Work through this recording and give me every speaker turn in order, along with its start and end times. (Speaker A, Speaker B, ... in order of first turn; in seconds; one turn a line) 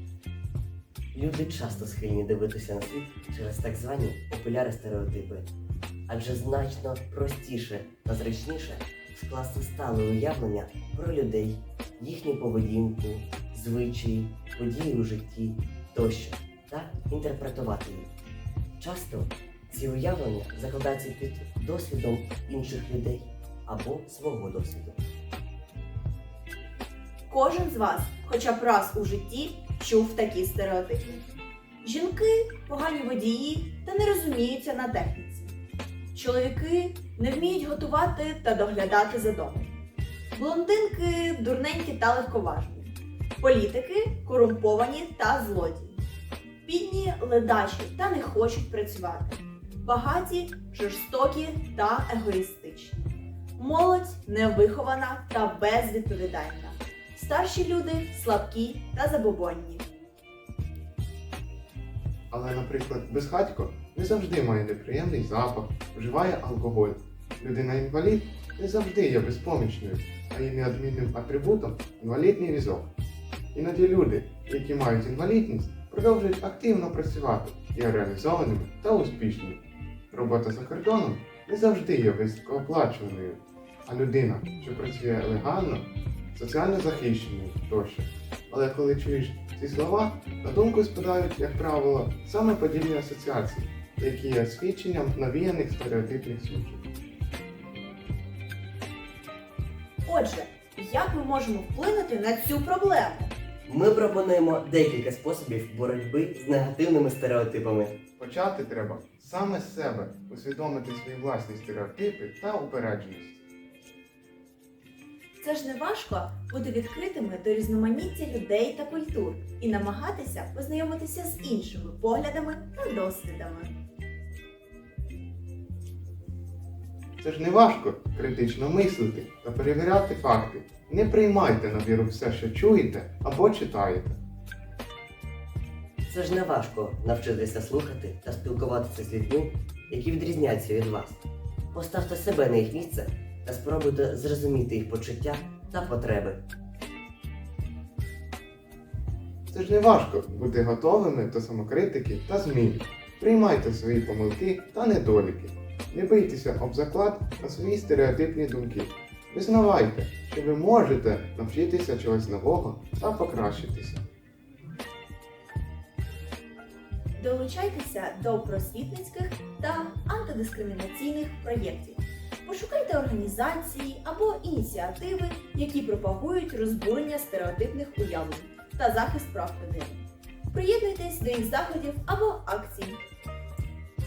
Speaker A: 1.1-5.5
Speaker A: 6.1-18.1
Speaker A: 18.8-25.0
Speaker B: 27.3-31.2
Speaker B: 31.8-35.5
Speaker B: 36.1-39.7
Speaker B: 40.3-46.0
Speaker B: 46.6-53.0
Speaker B: 53.6-59.9
Speaker C: 62.3-72.9
Speaker C: 73.5-96.9
Speaker B: 100.0-103.3
Speaker A: 103.7-108.0
Speaker C: 108.2-113.4
Speaker B: 115.4-123.8
Speaker C: 127.2-134.2
Speaker A: 136.1-146.4
Speaker C: 149.5-164.0
Speaker B: 167.2-183.0